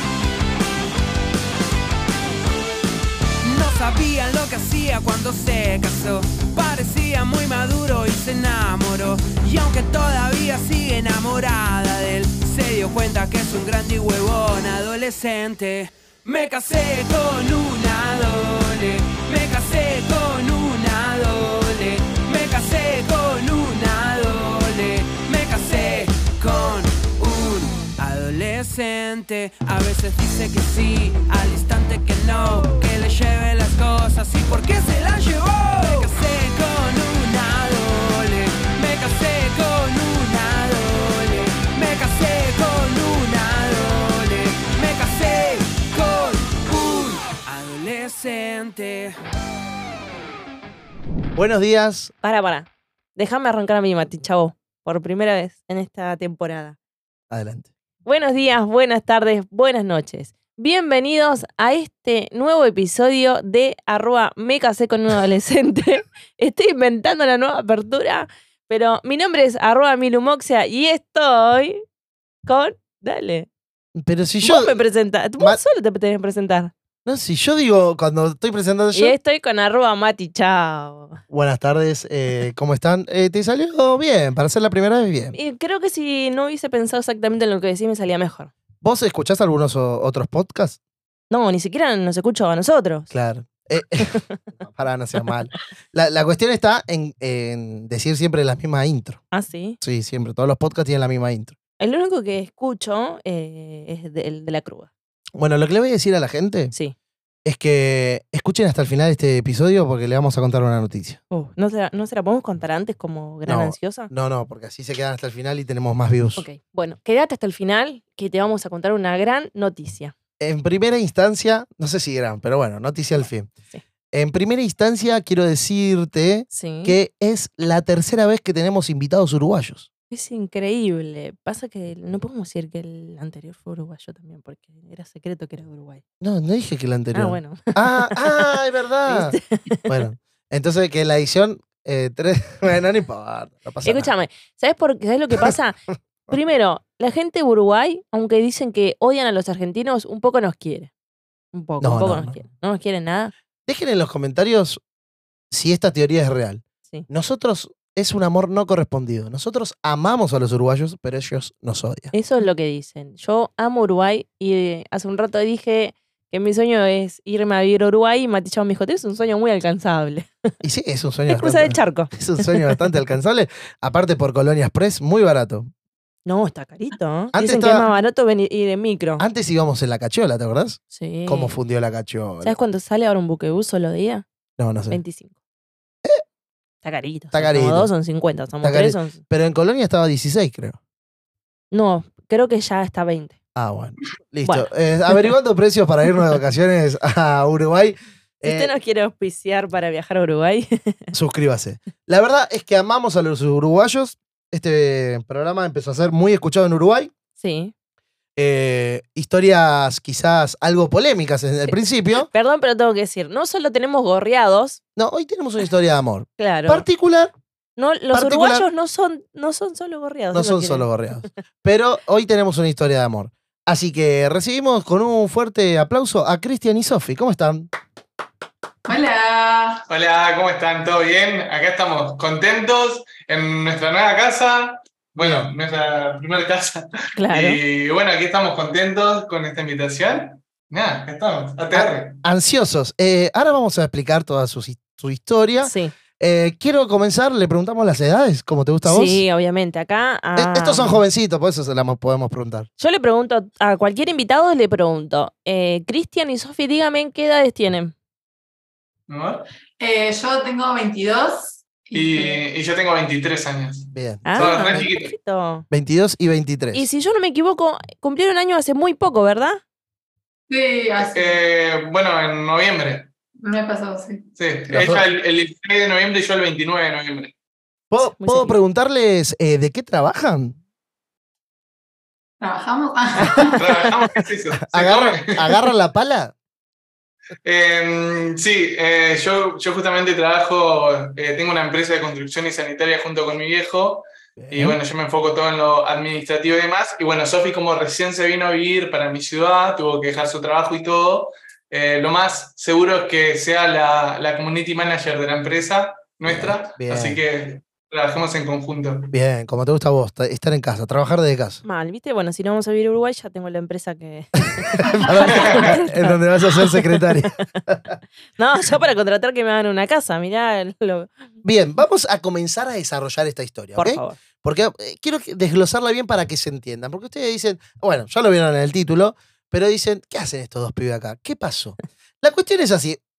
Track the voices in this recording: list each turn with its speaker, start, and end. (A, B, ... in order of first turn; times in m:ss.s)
0:03.4-0:49.1 A
0:51.4-0:52.1 B
0:52.2-0:56.8 C
0:57.3-0:57.7 B
0:58.0-1:11.8 C
1:12.4-1:13.5 C
1:13.9-1:14.7 B
1:14.4-1:16.7 C
1:17.0-1:19.1 B
1:18.9-1:21.2 C
1:21.3-1:25.4 B
1:25.3-1:28.5 C
1:28.8-1:30.8 B
1:31.3-1:33.1 C
1:33.1-1:39.2 B
1:34.0-1:34.3 C
1:39.3-1:39.8 C
1:39.8-1:41.5 B
1:41.8-1:44.9 C
1:45.4-1:46.7 B
1:47.4-1:51.2 B
1:51.3-1:54.1 C
1:53.4-1:56.4 B
1:56.4-2:00.1 C
2:00.4-2:03.5 B
2:04.1-2:09.9 B
2:06.5-2:07.0 C
2:10.1-2:16.0 C
2:16.2-2:24.1 B
2:17.1-2:19.9 C
2:23.8-2:30.9 C
2:31.5-2:33.3 C
2:31.8-2:32.4 B
2:33.7-2:34.8 B
2:35.5-2:42.1 B
2:42.1-2:50.3 C
2:50.6-2:55.7 B
2:51.3-2:52.8 C
2:56.2-2:59.2 C
2:57.3-2:57.9 B
2:59.2-3:02.6 B
3:00.9-3:01.6 C
3:02.4-3:04.2 C
3:04.6-3:05.0 B
3:04.9-3:05.3 C
3:06.8-3:09.2 C
3:07.3-3:07.9 B
3:08.6-3:10.8 B
3:11.7-3:13.4 C
3:13.5-3:18.7 B
3:14.4-3:15.2 C
3:18.4-3:21.1 C
3:21.1-3:27.1 B
3:27.4-3:27.7 C
3:28.4-3:32.3 B
3:31.7-3:34.8 C
3:35.0-3:37.3 B
3:36.4-3:36.8 C
3:37.8-3:40.9 C
3:38.1-3:38.7 B
3:40.3-3:47.7 B
3:48.8-3:49.8 D
3:49.9-4:02.2 E
3:55.2-3:55.5 B
3:57.2-3:57.6 C
4:01.7-4:09.2 B
4:05.6-4:05.9 C
4:08.8-4:11.0 C
4:10.4-4:12.7 B
4:12.8-4:17.9 C
4:19.1-4:19.4 E
4:19.8-4:22.4 D
4:21.9-4:25.1 E
4:23.9-4:24.9 B
4:24.2-4:25.7 C
4:25.7-4:26.9 B
4:26.7-4:29.6 C
4:30.5-4:31.4 D
4:31.0-4:33.1 E
4:33.4-4:34.3 D
4:34.4-4:37.3 E
4:34.7-4:35.0 B
4:37.9-4:40.6 B
4:38.0-4:38.6 C
4:42.4-4:43.6 D
4:43.2-4:43.5 B
4:43.5-4:45.6 E
4:44.7-4:46.3 B
4:47.4-5:09.1 E
4:54.4-4:54.8 B
5:06.2-5:07.2 B
5:09.1-5:11.6 B
5:11.6-5:17.4 C
5:14.6-5:17.9 B
5:15.3-5:15.7 E
5:18.4-5:21.2 C
5:21.4-5:33.0 B
5:23.8-5:24.2 C